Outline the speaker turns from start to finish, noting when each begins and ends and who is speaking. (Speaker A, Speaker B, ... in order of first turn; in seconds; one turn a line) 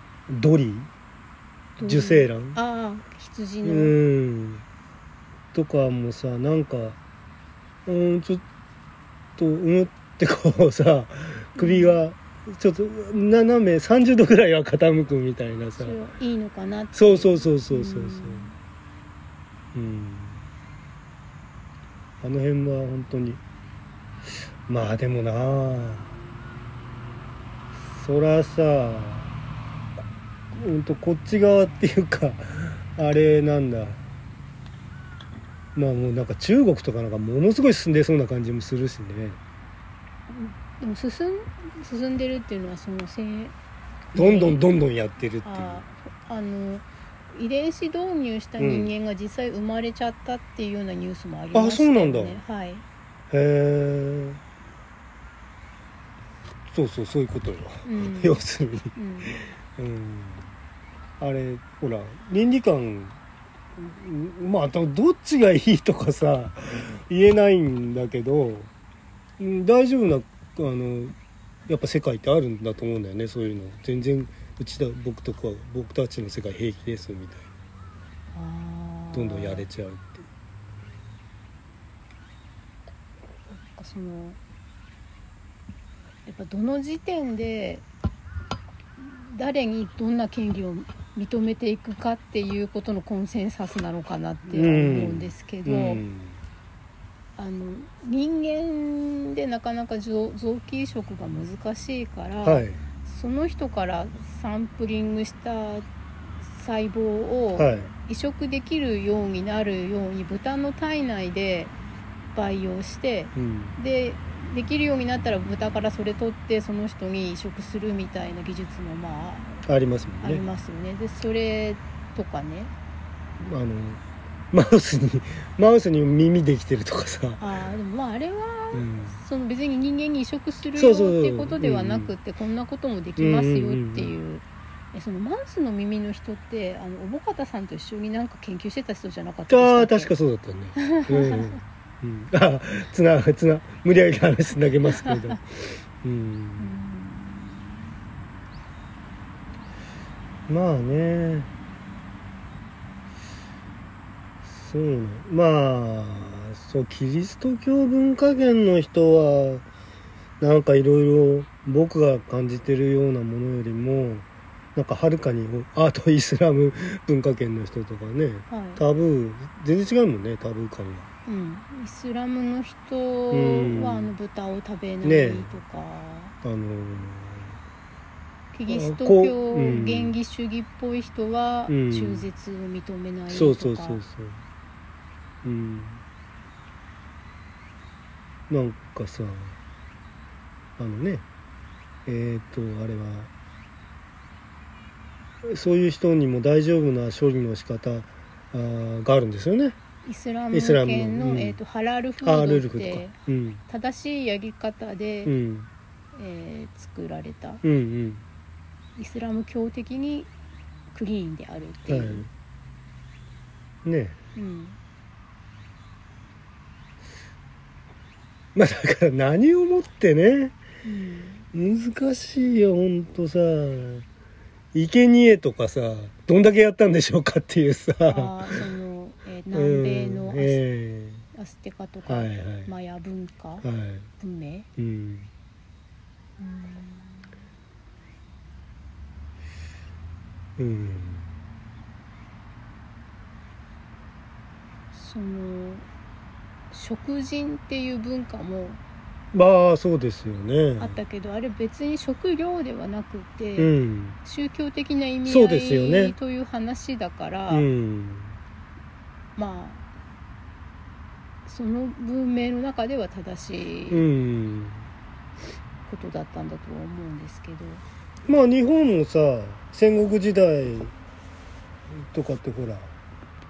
Speaker A: 0.3-0.9
Speaker B: 1.8-4.0
Speaker A: 1.8-2.6
Speaker A: 3.6-4.6
Speaker A: 5.5-7.0
Speaker A: 7.8-8.4
Speaker A: 9.4-16.0
Speaker B: 11.6-12.0
Speaker B: 15.8-18.6
Speaker A: 16.9-18.5
Speaker A: 19.7-20.4
Speaker A: 22.2-23.4
Speaker A: 24.7-26.1
Speaker A: 27.9-29.3
Speaker A: 30.5-34.0
Speaker A: 35.7-39.4
Speaker B: 40.3-43.5
Speaker B: 44.1-44.6
Speaker A: 44.1-45.8
Speaker B: 45.4-52.8
Speaker A: 48.6-48.9
Speaker A: 51.5-52.4
Speaker A: 53.3-54.4
Speaker A: 56.7-60.5
Speaker B: 57.8-58.4
Speaker B: 58.9-59.3
Speaker A: 61.2-63.1
Speaker A: 63.8-68.7
Speaker A: 69.4-71.1
Speaker A: 71.7-77.5
Speaker B: 78.3-79.7
Speaker A: 79.1-80.2
Speaker B: 83.5-84.4
Speaker B: 86.2-87.8
Speaker B: 89.0-96.0
Speaker A: 94.5-96.4
Speaker B: 97.4-105.8
Speaker A: 102.4-102.8
Speaker B: 106.4-111.7
Speaker A: 107.6-107.9
Speaker B: 112.3-119.6
Speaker A: 113.3-113.8
Speaker A: 119.7-120.4
Speaker B: 120.2-122.7
Speaker A: 123.4-124.0
Speaker A: 124.5-127.5
Speaker B: 127.4-140.1
Speaker A: 128.7-129.2
Speaker A: 130.7-132.1
Speaker A: 133.2-134.1
Speaker A: 139.5-146.8
Speaker B: 140.8-141.6
Speaker B: 146.6-147.7
Speaker A: 150.5-151.5
Speaker A: 154.4-159.6
Speaker A: 160.4-171.1
Speaker B: 168.5-168.8
Speaker B: 171.2-176.3
Speaker A: 173.3-174.1
Speaker A: 175.0-175.5
Speaker A: 176.4-177.6
Speaker B: 178.5-184.0
Speaker A: 178.7-180.2
Speaker A: 181.7-182.3
Speaker A: 183.3-184.4
Speaker A: 185.4-186.0
Speaker A: 188.5-189.6
Speaker A: 190.8-191.2
Speaker A: 192.1-193.3
Speaker A: 195.4-199.8
Speaker B: 200.0-205.3
Speaker A: 200.5-201.6
Speaker A: 202.2-203.6
Speaker A: 205.2-205.7
Speaker B: 206.1-207.6
Speaker A: 207.6-208.2
Speaker B: 208.9-210.3
Speaker B: 210.9-212.3
Speaker A: 211.9-212.3
Speaker A: 213.8-214.2
Speaker B: 214.3-214.8
Speaker A: 218.5-220.5
Speaker B: 220.8-221.4
Speaker A: 221.5-224.0
Speaker A: 224.7-228.6
Speaker B: 228.1-230.6
Speaker A: 229.5-231.2
Speaker B: 231.3-233.7
Speaker A: 232.1-232.7
Speaker A: 233.6-234.1
Speaker B: 234.2-234.7
Speaker A: 234.8-235.3
Speaker B: 236.4-237.3
Speaker A: 240.6-241.3
Speaker B: 244.9-245.8
Speaker B: 246.7-248.8
Speaker A: 249.3-251.0
Speaker B: 250.8-257.7
Speaker A: 253.6-254.2
Speaker A: 255.2-256.1
Speaker A: 257.5-258.4
Speaker B: 259.4-259.8
Speaker B: 261.4-264.1
Speaker A: 263.9-264.9
Speaker B: 265.9-267.8
Speaker A: 268.2-270.9
Speaker A: 272.0-272.9